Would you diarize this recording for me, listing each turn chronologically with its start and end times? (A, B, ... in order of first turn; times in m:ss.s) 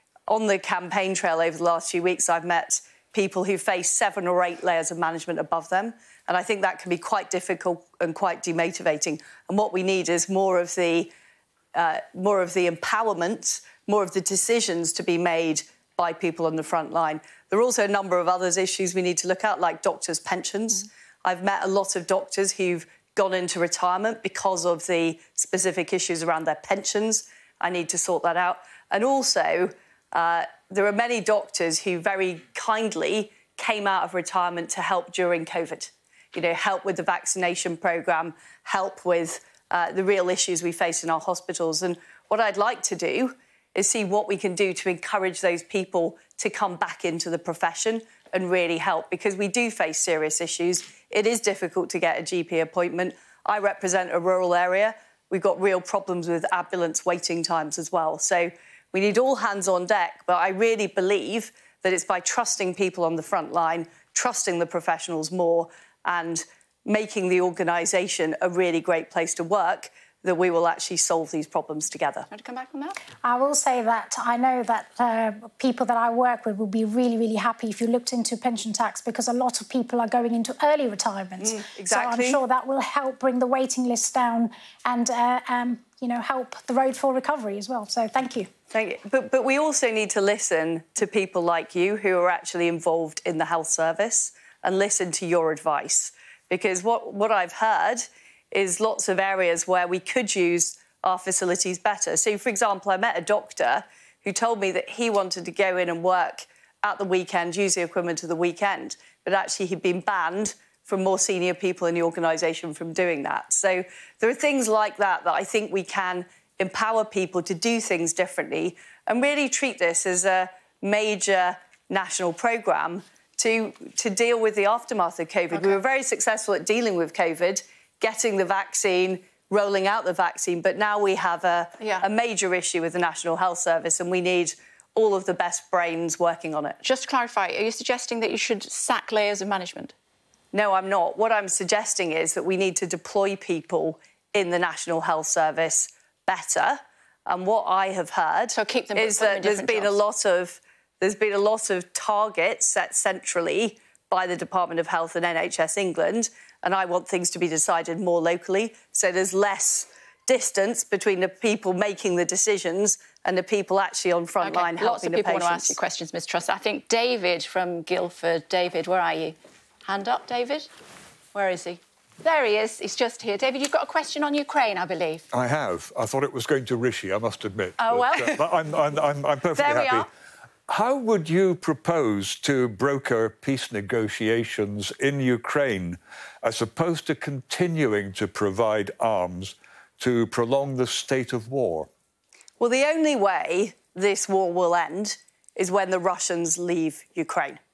0:00.3-0:11.1 A
0:11.7-1:12.3 A
1:12.3-1:13.0 B
1:13.2-1:28.5 C
1:21.4-1:22.4 A
1:28.7-2:16.8 A
2:11.8-2:12.0 B
2:16.8-2:19.9 B
2:20.5-2:45.8 A
2:28.5-2:30.0 B
2:44.4-2:50.7 B
2:51.3-2:55.3 B
2:55.3-3:00.1 D
2:57.8-2:58.5 B
2:59.6-3:00.1 B
3:00.7-3:11.9 D
3:12.6-3:17.6 A